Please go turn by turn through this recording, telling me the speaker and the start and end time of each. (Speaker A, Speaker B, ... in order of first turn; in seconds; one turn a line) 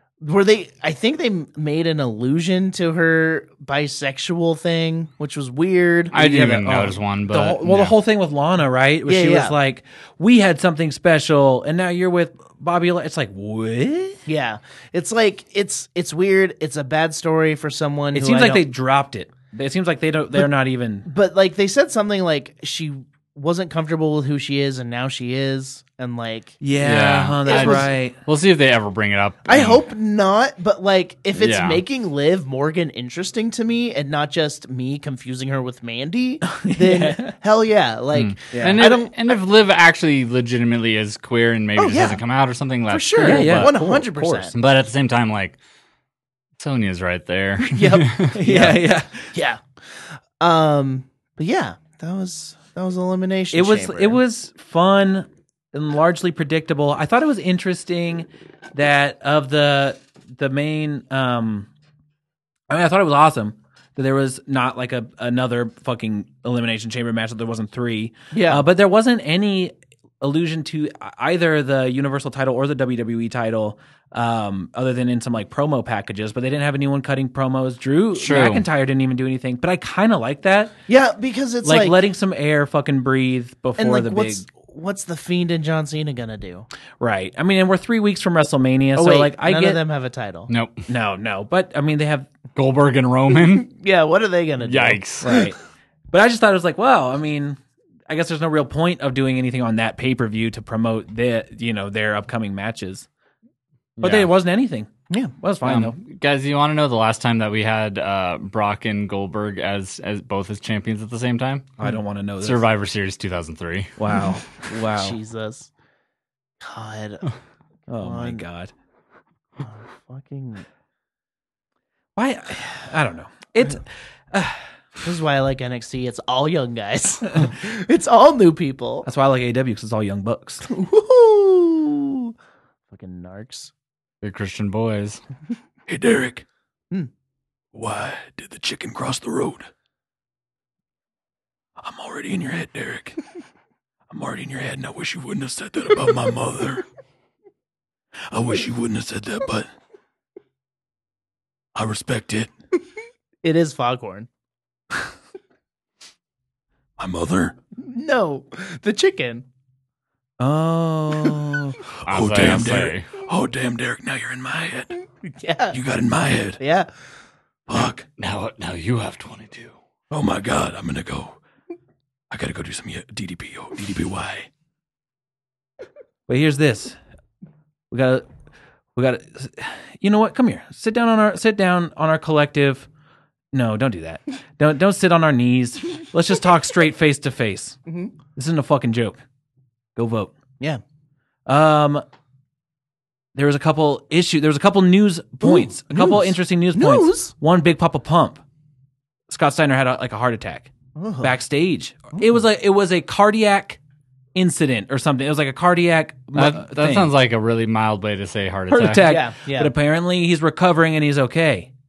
Speaker A: 0.2-6.2
Speaker B: 6.1-7.9
Speaker C: 6.1-14.2
Speaker A: 9.1-9.6
Speaker A: 14.3-18.6
Speaker C: 18.1-21.1
Speaker A: 21.1-26.6
Speaker C: 26.6-28.2
Speaker B: 26.8-29.8
Speaker A: 27.5-27.9
Speaker A: 29.5-39.4
Speaker B: 31.4-31.8
Speaker C: 36.5-37.4
Speaker B: 38.1-43.7
Speaker C: 38.5-39.0
Speaker A: 41.8-42.2
Speaker A: 42.9-44.5
Speaker C: 43.2-44.6
Speaker B: 44.5-45.6
Speaker B: 46.6-48.4
Speaker A: 47.6-48.8
Speaker C: 48.3-49.3
Speaker A: 49.3-49.6
Speaker A: 50.4-54.2
Speaker C: 53.5-61.7
Speaker C: 62.7-80.7
Speaker A: 68.3-68.6
Speaker B: 78.2-78.7
Speaker A: 80.9-82.0
Speaker C: 81.6-84.5
Speaker A: 83.8-86.7
Speaker C: 87.0-89.8
Speaker A: 89.0-90.5
Speaker B: 90.5-90.9
Speaker C: 90.9-92.3
Speaker B: 92.6-93.7
Speaker A: 93.6-95.3
Speaker B: 94.6-95.5
Speaker C: 95.2-95.6
Speaker C: 96.1-103.1
Speaker B: 104.0-104.3
Speaker C: 104.0-106.0
Speaker B: 105.6-111.8
Speaker C: 111.8-112.6
Speaker B: 112.4-113.9
Speaker C: 114.0-115.2
Speaker A: 114.9-115.7
Speaker A: 116.6-117.3
Speaker C: 117.9-118.7
Speaker A: 118.0-118.5
Speaker A: 119.6-120.7
Speaker C: 122.2-124.7
Speaker A: 125.0-129.1
Speaker C: 129.1-130.7
Speaker A: 130.7-132.3
Speaker A: 132.9-133.7
Speaker B: 134.2-135.2
Speaker D: 135.9-136.4
Speaker D: 137.7-139.7
Speaker D: 141.8-143.2
Speaker D: 144.1-146.8
Speaker D: 148.3-149.7
Speaker D: 151.8-152.5
Speaker A: 153.4-154.3
Speaker D: 157.0-157.6
Speaker A: 157.8-159.5
Speaker C: 160.4-161.8
Speaker D: 162.0-165.0
Speaker B: 162.1-163.1
Speaker A: 165.2-165.8
Speaker D: 165.7-166.6
Speaker A: 166.6-166.9
Speaker D: 167.7-168.1
Speaker B: 168.2-169.8
Speaker D: 170.1-171.4
Speaker D: 172.3-174.5
Speaker C: 176.3-177.0
Speaker C: 177.9-178.3
Speaker C: 178.9-182.9
Speaker C: 183.5-187.8
Speaker A: 187.9-188.1
Speaker C: 188.3-189.2
Speaker C: 190.0-190.3
Speaker C: 191.5-192.0
Speaker C: 193.3-198.4
Speaker A: 195.4-197.3
Speaker C: 199.3-200.7
Speaker A: 201.0-201.4
Speaker C: 201.2-203.8
Speaker C: 204.3-207.1
Speaker B: 206.3-209.1
Speaker C: 208.7-211.7
Speaker A: 208.9-209.7